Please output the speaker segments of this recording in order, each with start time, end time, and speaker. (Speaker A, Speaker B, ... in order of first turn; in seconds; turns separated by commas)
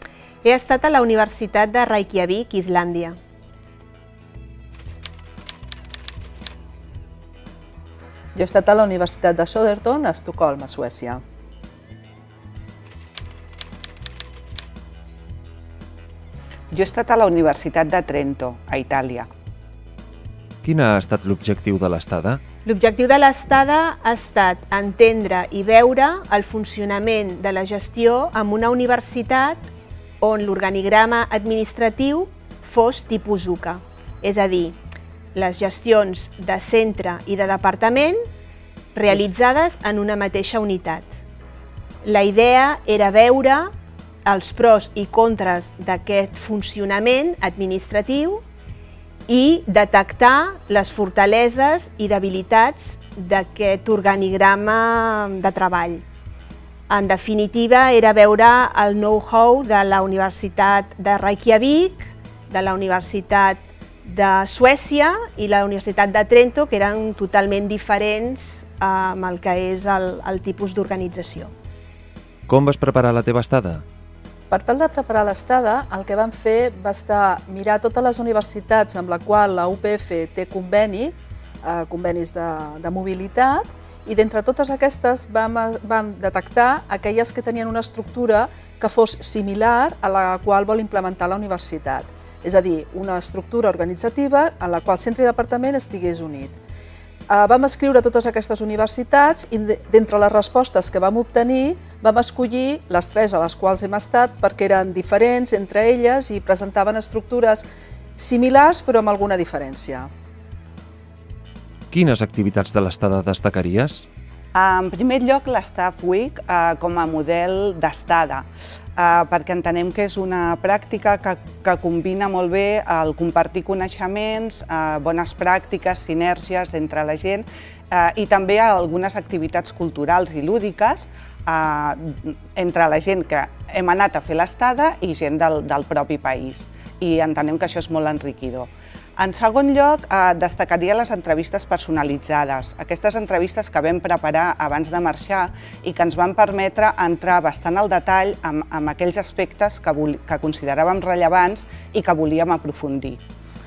Speaker A: 0.4-3.2, Speaker B: 8.3-11.2, Speaker C: 16.7-19.3, Speaker D: 20.6-22.4, Speaker A: 22.6-29.6, Speaker A: 30.2-34.8, Speaker A: 35.3-38.2, Speaker A: 38.9-41.1, Speaker A: 42.0-43.7, Speaker A: 44.2-48.4, Speaker A: 49.3-56.0, Speaker A: 56.9-71.5, Speaker D: 72.5-73.8, Speaker B: 74.5-96.5, Speaker B: 97.3-107.6, Speaker B: 108.2-110.1, Speaker D: 111.9-114.0, Speaker C: 114.5-118.4, Speaker C: 119.0-153.2